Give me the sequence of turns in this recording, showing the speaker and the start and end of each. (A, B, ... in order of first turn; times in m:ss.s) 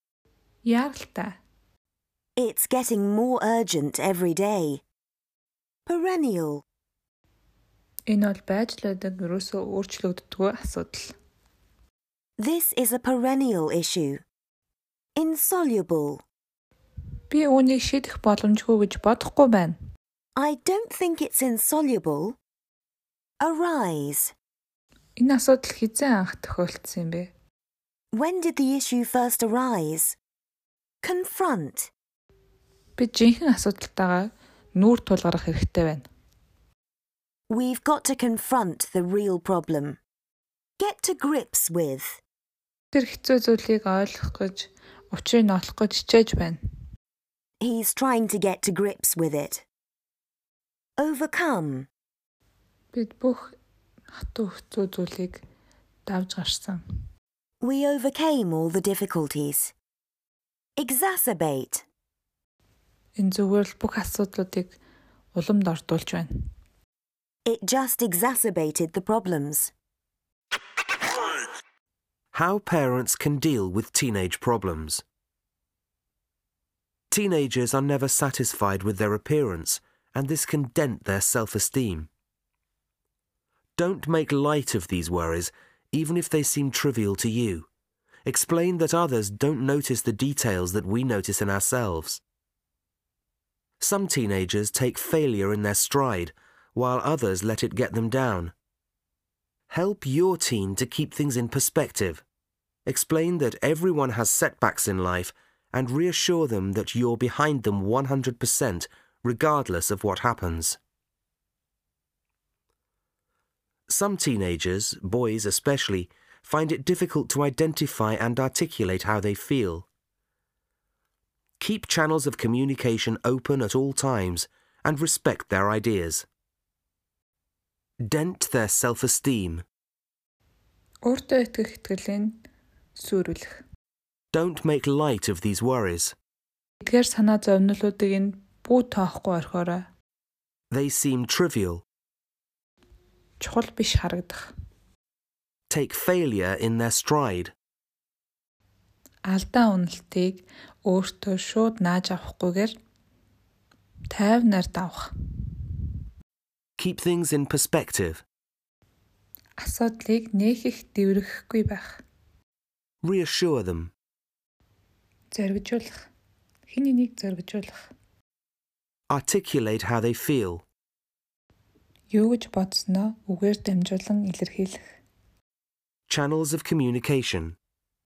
0:00.6-0:01.4 A
0:02.4-0:04.8 B
0:05.8-0:06.6 B
0:08.1-0:11.1 A
0:12.4-0:14.2 B
0:15.2-0:16.2 B
0:17.3-0:19.7 A
0:20.4-0:22.4 B
0:23.4-0:24.3 B
0:25.2-0:27.3 A
0:28.1-0:30.2 B
0:31.0-0:31.9 B
0:33.0-0:36.0 A
0:37.5-0:40.0 B
0:40.8-0:42.2 B
0:42.9-0:46.6 A
0:47.6-0:49.6 B
0:51.0-0:51.9 B
0:52.9-0:53.5 A
0:54.1-0:55.4 A
0:56.0-0:56.8 A
0:57.6-0:59.7 B
1:00.8-1:01.8 B
1:03.2-1:04.8 A
1:05.3-1:06.3 A
1:07.4-1:09.7 B
1:12.3-1:15.0 C
1:17.1-1:22.1 C
1:23.8-1:27.7 C
1:28.2-1:32.2 C
1:33.8-1:38.5 C
1:39.7-1:42.2 C
1:42.8-1:50.8 C
1:53.9-1:59.9 C
2:01.6-2:06.3 C
2:08.1-2:09.6 C
2:11.0-2:12.4 A
2:13.0-2:13.6 A
2:14.3-2:16.2 C
2:16.8-2:19.9 A
2:20.7-2:21.8 C
2:23.4-2:24.5 A
2:25.7-2:27.5 C
2:29.3-2:32.7 A
2:34.1-2:35.1 A
2:36.8-2:38.2 C
2:39.6-2:42.0 A
2:43.0-2:43.9 C
2:45.3-2:45.9 A
2:46.7-2:47.9 A
2:49.1-2:50.6 C
2:52.1-2:54.8 A
2:56.1-2:57.6 C